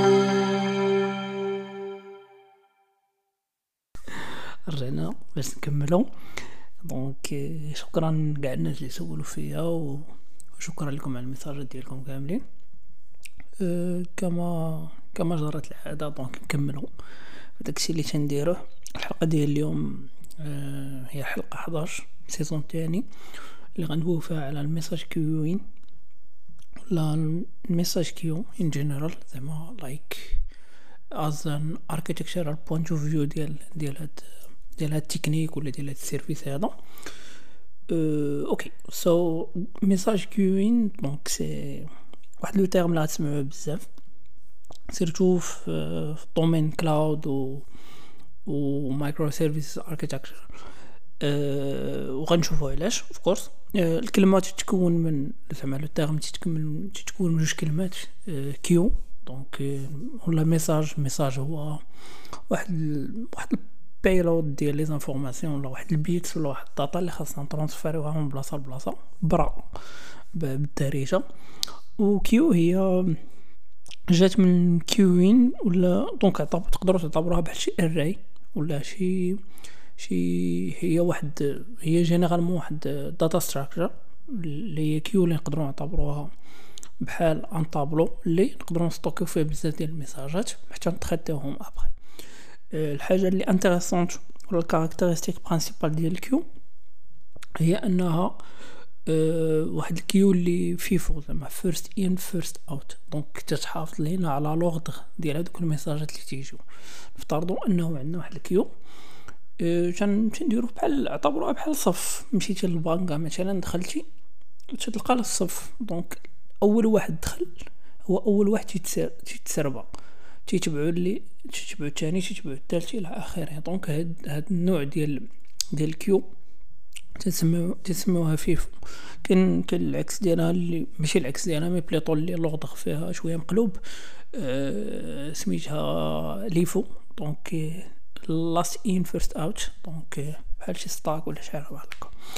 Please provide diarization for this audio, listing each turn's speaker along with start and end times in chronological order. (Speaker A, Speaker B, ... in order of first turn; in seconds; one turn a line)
Speaker A: 4.2-6.1
Speaker A: 6.8-12.4
Speaker A: 13.6-16.9
Speaker A: 17.6-23.1
Speaker A: 23.8-25.6
Speaker A: 26.9-30.4
Speaker A: 31.1-36.8
Speaker A: 37.9-43.8
Speaker A: 44.9-47.7
Speaker A: 48.5-50.5
Speaker A: 51.2-61.8
Speaker A: 62.5-69.8
Speaker A: 70.3-71.2
Speaker A: 72.0-73.2
Speaker A: 74.1-79.4
Speaker A: 80.0-86.3
Speaker A: 87.0-92.0
Speaker A: 92.7-96.5
Speaker A: 97.6-98.4
Speaker A: 99.1-106.6
Speaker A: 107.1-108.7
Speaker A: 109.6-114.1
Speaker A: 114.7-119.9
Speaker A: 120.5-126.3
Speaker A: 127.2-133.8
Speaker A: 134.3-142.1